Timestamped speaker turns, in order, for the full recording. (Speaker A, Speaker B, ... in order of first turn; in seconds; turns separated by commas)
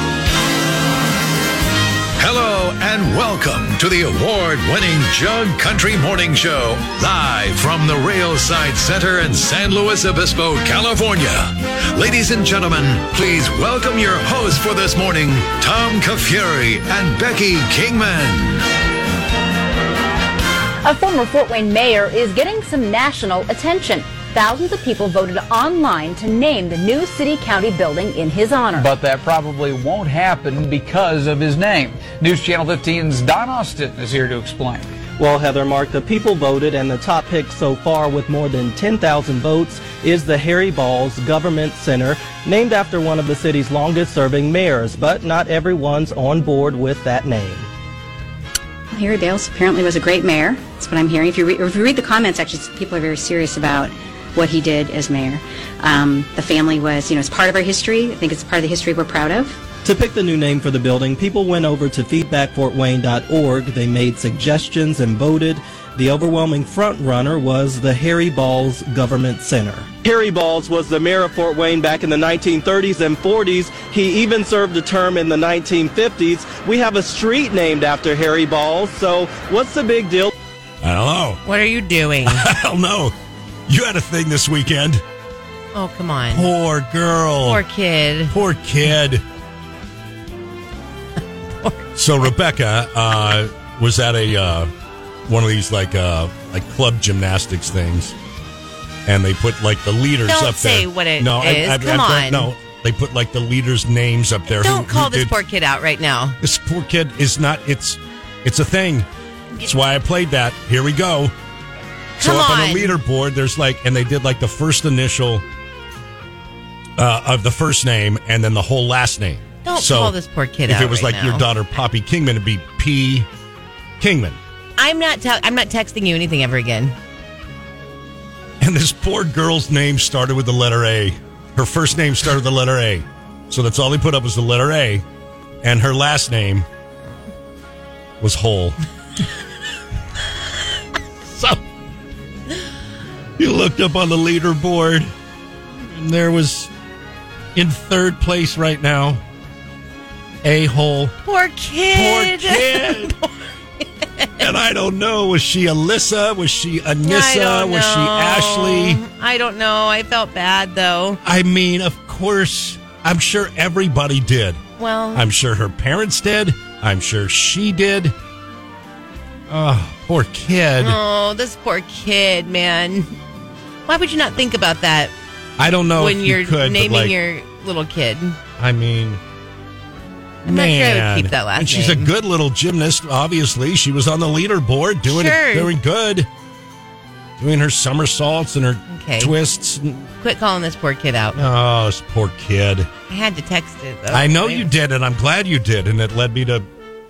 Speaker A: 2.2-18.7, Speaker B: 20.8-28.9, Speaker C: 28.8-34.9, Speaker D: 35.2-47.7, Speaker E: 48.9-59.6, Speaker D: 59.8-80.3, Speaker F: 80.8-81.4, Speaker G: 81.5-82.5, Speaker F: 82.2-83.1, Speaker F: 83.7-85.0, Speaker G: 85.7-86.5, Speaker F: 86.3-87.6, Speaker G: 87.4-88.3, Speaker F: 88.3-89.2, Speaker F: 92.0-94.7, Speaker F: 95.3-98.2, Speaker F: 99.1-105.3, Speaker G: 100.2-102.5, Speaker G: 104.5-106.4, Speaker F: 106.4-109.1, Speaker F: 109.6-111.3, Speaker F: 112.2-115.4, Speaker G: 112.2-113.0, Speaker F: 117.0-120.2, Speaker G: 119.7-121.5, Speaker F: 120.7-123.3, Speaker F: 124.0-124.4, Speaker G: 124.8-127.0, Speaker F: 128.6-135.1, Speaker F: 135.6-136.7, Speaker F: 138.2-138.8, Speaker F: 141.2-141.6, Speaker F: 143.4-145.1, Speaker F: 145.8-146.7, Speaker F: 147.6-149.2, Speaker F: 150.4-151.2, Speaker G: 151.2-154.3, Speaker F: 151.9-153.2, Speaker F: 154.4-159.0, Speaker G: 157.1-161.2, Speaker F: 161.2-164.6, Speaker G: 164.8-165.2, Speaker F: 165.1-168.2, Speaker F: 169.5-171.0, Speaker G: 170.8-173.2, Speaker G: 173.9-175.1, Speaker F: 175.6-177.2, Speaker G: 176.0-178.4, Speaker F: 178.6-179.2, Speaker F: 180.4-186.3, Speaker G: 180.4-182.1, Speaker G: 185.1-185.7, Speaker F: 187.4-190.1, Speaker G: 188.9-189.3, Speaker G: 190.2-191.4, Speaker F: 191.4-192.9, Speaker G: 193.1-194.7, Speaker F: 194.1-196.7